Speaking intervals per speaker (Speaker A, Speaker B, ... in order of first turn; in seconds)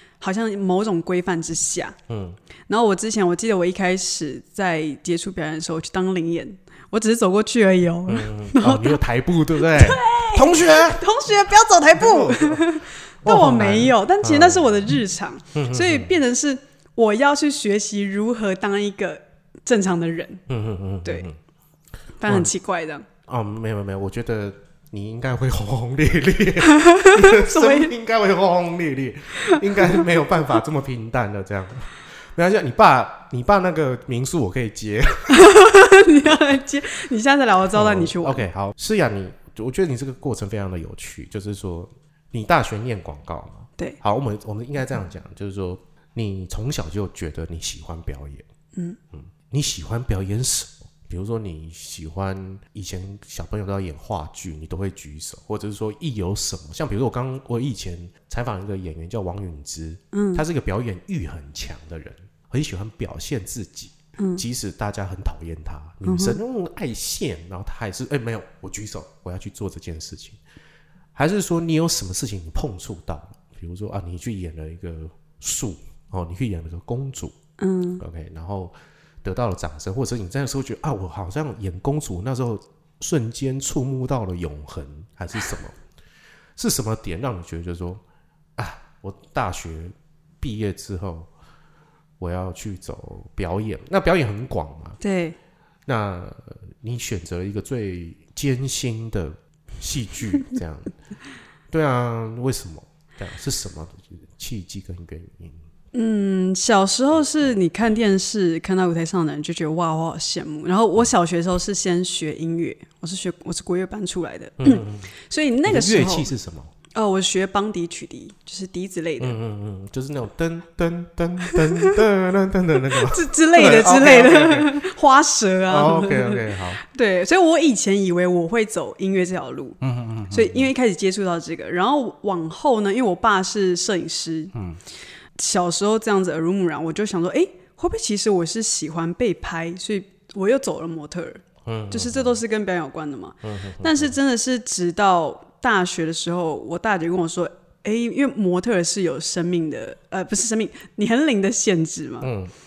Speaker A: 0.2-2.0, 2.7-9.0, 9.7-20.4, 22.2-23.1, 26.6-27.9, 29.4-30.0, 35.3-38.4, 60.1-60.4, 64.2-64.4, 66.0-66.4, 77.6-78.0, 95.0-95.4, 105.9-116.3, 116.9-119.4, 121.5-121.9, 122.9-129.8, 130.3-134.5, 135.4-152.3
Speaker B: 2.1-2.4, 8.1-11.1, 11.9-14.8, 15.5-16.1, 20.5-21.4, 23.3-35.5, 37.7-48.4, 49.1-70.4, 71.2-77.4, 78.0-85.8, 86.6-88.0, 88.6-91.3, 92.2-95.0, 95.9-100.9, 101.7-105.6, 114.6-115.1, 115.7-116.7, 119.2-124.7, 125.7-126.8, 129.8-130.7, 134.5-134.8, 141.7-142.4, 143.4-144.1, 152.2-152.5